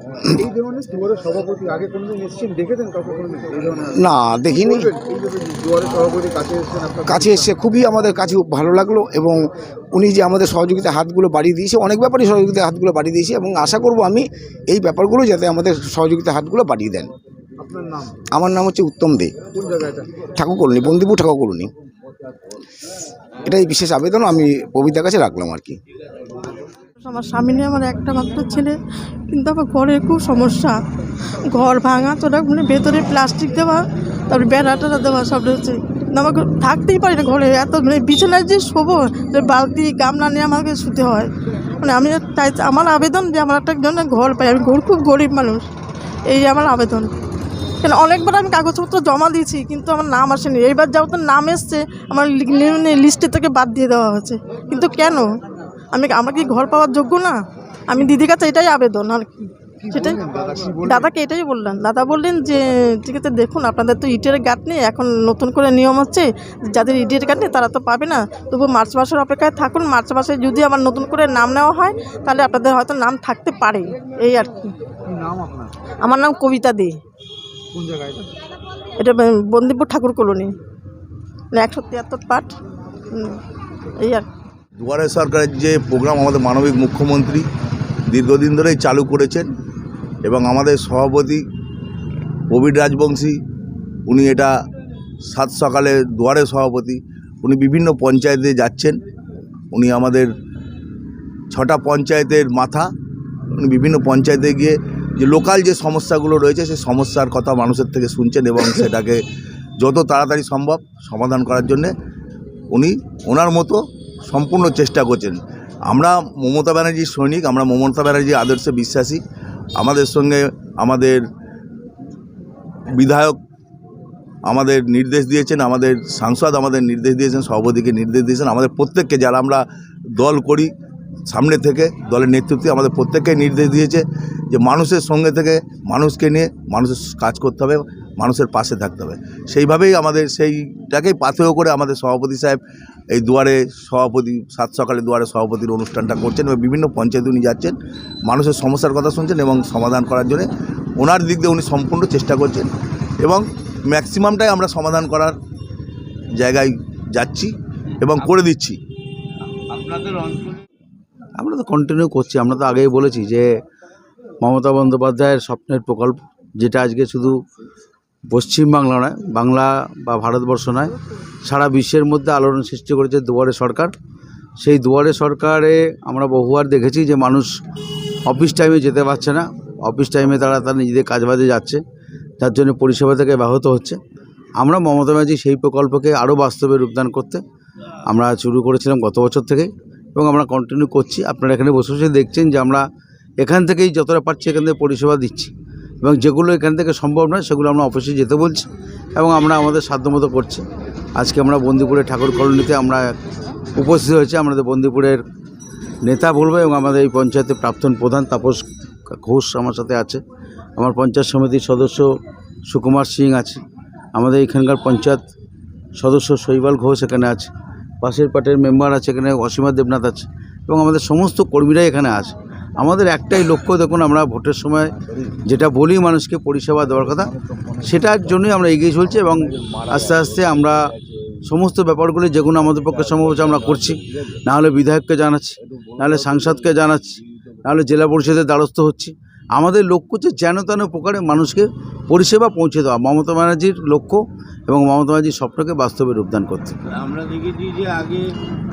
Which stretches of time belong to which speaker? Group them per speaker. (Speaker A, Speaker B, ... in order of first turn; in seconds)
Speaker A: 0.4-7.5, 17.6-18.1, 19.5-20.1, 59.8-61.1, 75.1-75.7, 77.7-78.3
Speaker B: 4.0-4.9, 7.1-9.4, 9.9-17.1, 18.3-19.5, 20.4-21.7, 23.4-25.8
Speaker C: 27.0-30.8, 31.5-45.7, 46.3-47.1, 47.8-55.3, 55.9-60.2, 60.8-74.8, 76.0-77.0, 79.0-80.5, 81.5-82.6, 83.1-83.4, 84.0-84.3
Speaker D: 84.8-87.5, 88.1-89.5, 90.2-91.4, 92.5-93.4, 94.1-94.5, 95.3-99.0, 99.7-100.3, 101.5-102.9, 103.6-109.2, 109.8-111.9, 112.7-119.2, 119.8-121.2, 123.0-123.4, 124.5-129.6, 130.2-130.7, 131.3-142.6, 143.1-147.8, 148.3-152.7, 153.2-155.3, 156.4-157.5, 158.3-158.8
Speaker E: 159.7-160.6, 246.9-248.3
Speaker F: 161.4-163.5, 164.4-167.4, 168.3-173.9, 174.6-177.6, 178.3-181.8, 182.4-184.0, 184.6-187.4, 188.1-192.9, 193.4-203.2, 203.8-205.2, 206.0-210.2, 210.8-213.6, 214.2-215.3, 216.0-246.8